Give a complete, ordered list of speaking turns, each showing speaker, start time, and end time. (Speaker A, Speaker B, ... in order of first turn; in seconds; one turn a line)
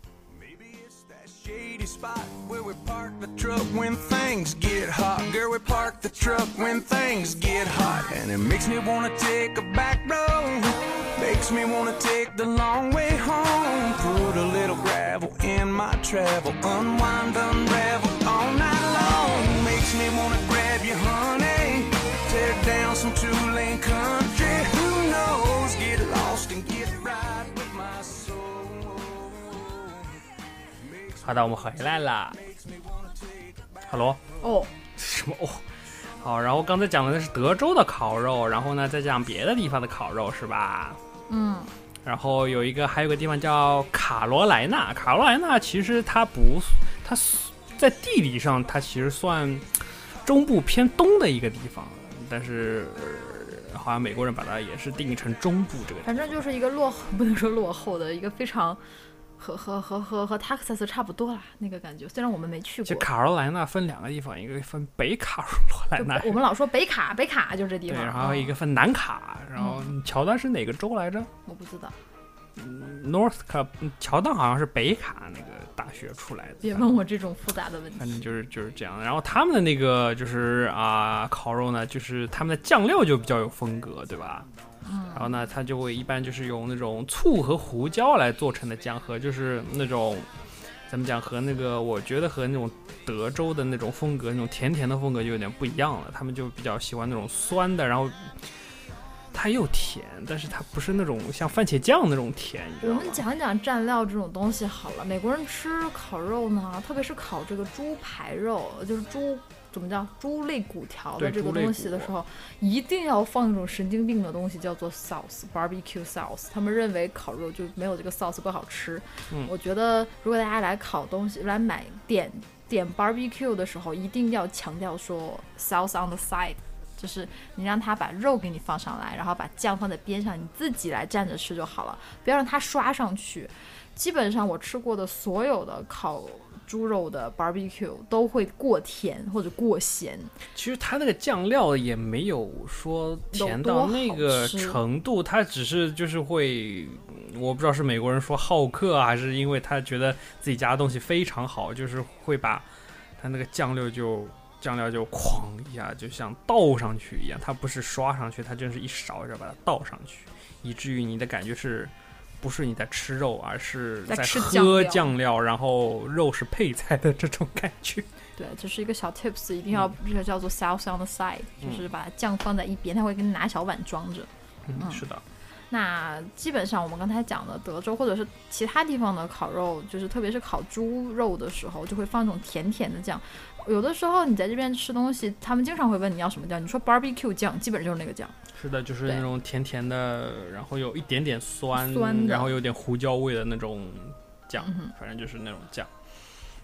Speaker A: 0.3-30.3
Speaker A: 30.9-31.3
Speaker B: 31.2-32.4
Speaker A: 32.6-33.6
Speaker B: 33.8-34.2
Speaker C: 34.4-34.7
Speaker B: 34.9-41.0
Speaker C: 41.3-41.7
Speaker B: 42.0-56.3
Speaker C: 56.0-58.8
Speaker C: 59.4-63.1
Speaker B: 62.9-66.4
Speaker C: 66.0-68.5
Speaker B: 67.9-71.3
Speaker C: 69.6-69.9
Speaker C: 71.5-72.0
Speaker B: 72.6-77.0
Speaker C: 76.6-78.2
Speaker B: 78.0-84.5
Speaker C: 84.8-85.4
Speaker B: 85.1-90.3
Speaker B: 90.9-98.3
Speaker B: 99.3-103.2
Speaker C: 102.8-140.3
Speaker B: 111.2-112.1
Speaker B: 140.6-152.7
Speaker C: 143.3-144.8
Speaker B: 153.2-168.1
Speaker C: 164.1-165.1
Speaker C: 168.4-175.1
Speaker B: 171.6-171.9
Speaker B: 174.7-175.2
Speaker C: 175.7-188.4
Speaker B: 188.5-195.9
Speaker C: 191.7-192.6
Speaker C: 194.6-194.9